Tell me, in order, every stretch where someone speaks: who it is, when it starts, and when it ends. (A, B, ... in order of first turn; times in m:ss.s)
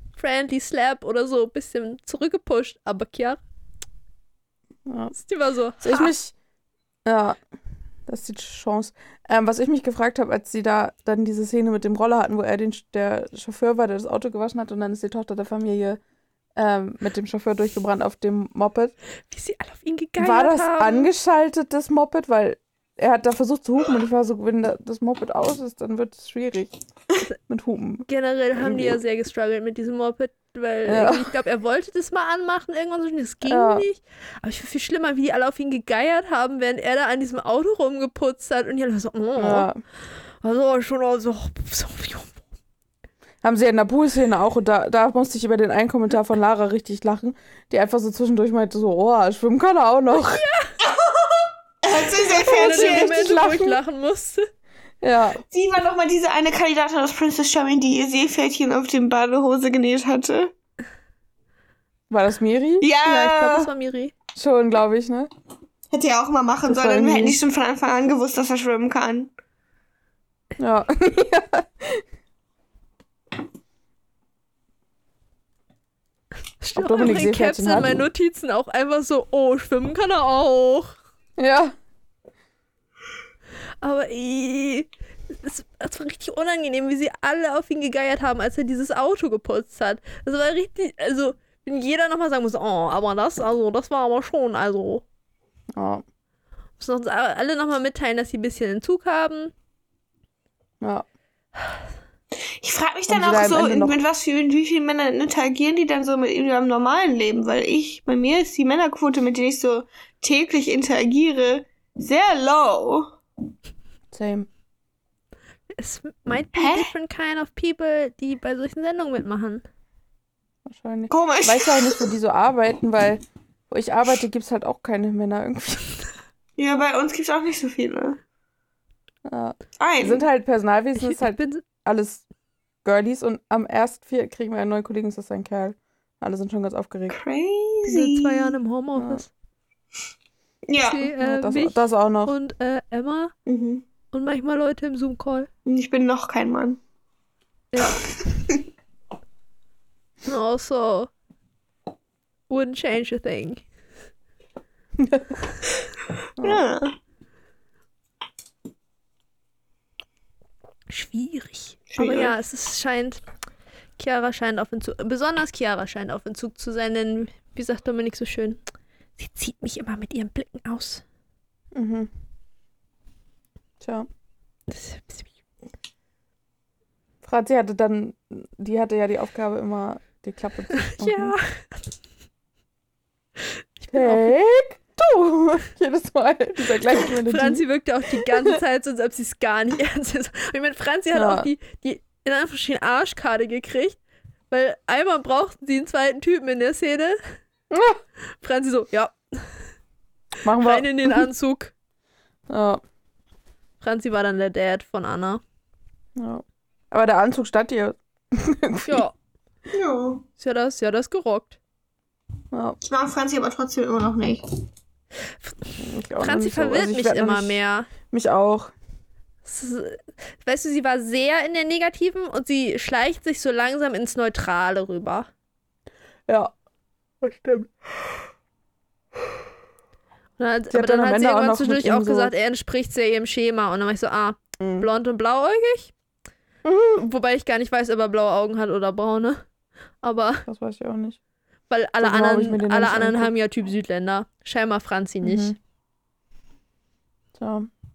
0:00.2-0:03.4 A
0:04.9-0:05.1 B
0:05.1-0:06.1 A
0:05.8-0:06.3 B
0:07.1-0:07.4 B
0:08.1-0:16.0 B
0:16.6-0:18.9 B
0:19.3-0:21.1 A
0:20.2-0:26.7 B
0:27.5-0:28.1 B
0:28.1-0:39.7 A
0:28.6-0:29.0 B
0:30.8-0:31.3 B
0:33.5-0:33.9 B
0:39.4-0:39.8 B
0:40.4-0:42.4 A
0:43.4-0:50.4 B
0:50.4-0:50.7 A
0:50.8-0:53.2 C
0:52.4-0:54.5 A
0:52.4-0:53.8 B
0:55.0-0:55.4 B
0:55.5-1:00.5 C
1:02.1-1:02.9 B
1:02.8-1:03.7 C
1:03.0-1:04.2 A
1:04.4-1:05.3 B
1:05.9-1:09.3 C
1:06.7-1:07.4 B
1:10.6-1:12.0 B
1:16.6-1:21.0 A
1:16.8-1:18.0 B
1:21.4-1:21.8 B
1:23.8-1:35.0 A
1:35.8-1:36.0 B
1:36.8-1:39.5 A
1:40.8-1:41.1 B
1:42.6-1:53.2 C
1:43.1-1:44.0 B
1:54.1-1:54.5 B
1:55.8-1:59.6 A
1:56.6-1:56.9 C
2:00.7-2:06.0 B
2:01.1-2:02.1 C
2:06.6-2:08.2 C
2:09.3-2:12.2 B
2:09.8-2:10.2 C
2:11.0-2:11.6 A
2:12.8-2:17.2 B
2:17.1-2:18.6 C
2:17.9-2:19.3 A
2:19.0-2:19.2 B
2:20.7-2:21.1 C
2:20.8-2:23.3 A
2:21.1-2:22.3 B
2:23.5-2:23.8 C
2:24.1-2:25.5 A
2:25.7-2:26.8 C
2:27.7-2:28.0 A
2:30.3-2:31.1 A
2:32.5-2:33.6 A
2:35.0-2:35.3 B
2:36.4-2:37.0 C
2:40.9-2:43.2 A
2:41.9-2:42.4 C
2:44.0-2:48.6 A
2:49.2-2:51.0 A
2:51.7-2:52.1 B
2:53.8-2:54.1 B
2:54.7-2:55.3 A
2:57.2-3:01.4 B
3:00.7-3:01.6 A
3:03.8-3:04.3 A
3:03.9-3:07.6 B
3:06.9-3:14.0 A
3:11.1-3:11.5 B
3:14.5-3:17.2 A
3:17.7-3:18.0 B
3:18.4-3:19.5 A
3:20.4-3:21.3 B
3:20.6-3:21.7 A
3:22.5-3:22.8 B
3:23.8-3:25.4 A
3:26.2-3:29.0 B
3:28.9-3:29.1 A
3:29.7-3:30.2 C
3:30.4-3:31.6 A
3:32.5-3:32.8 B
3:32.8-3:34.4 C
3:35.8-3:38.7 B
3:36.2-3:37.9 A
3:39.5-3:45.3 A
3:46.3-3:46.5 B
3:47.2-3:47.7 B
3:50.4-3:55.9 A
3:50.7-3:52.3 B
3:54.6-3:54.9 B
3:56.6-3:57.0 B
3:57.0-3:59.4 A
4:00.0-4:00.5 A
4:00.5-4:01.2 B
4:01.7-4:05.6 A
4:02.0-4:03.3 B
4:05.2-4:05.6 B
4:07.4-4:07.7 B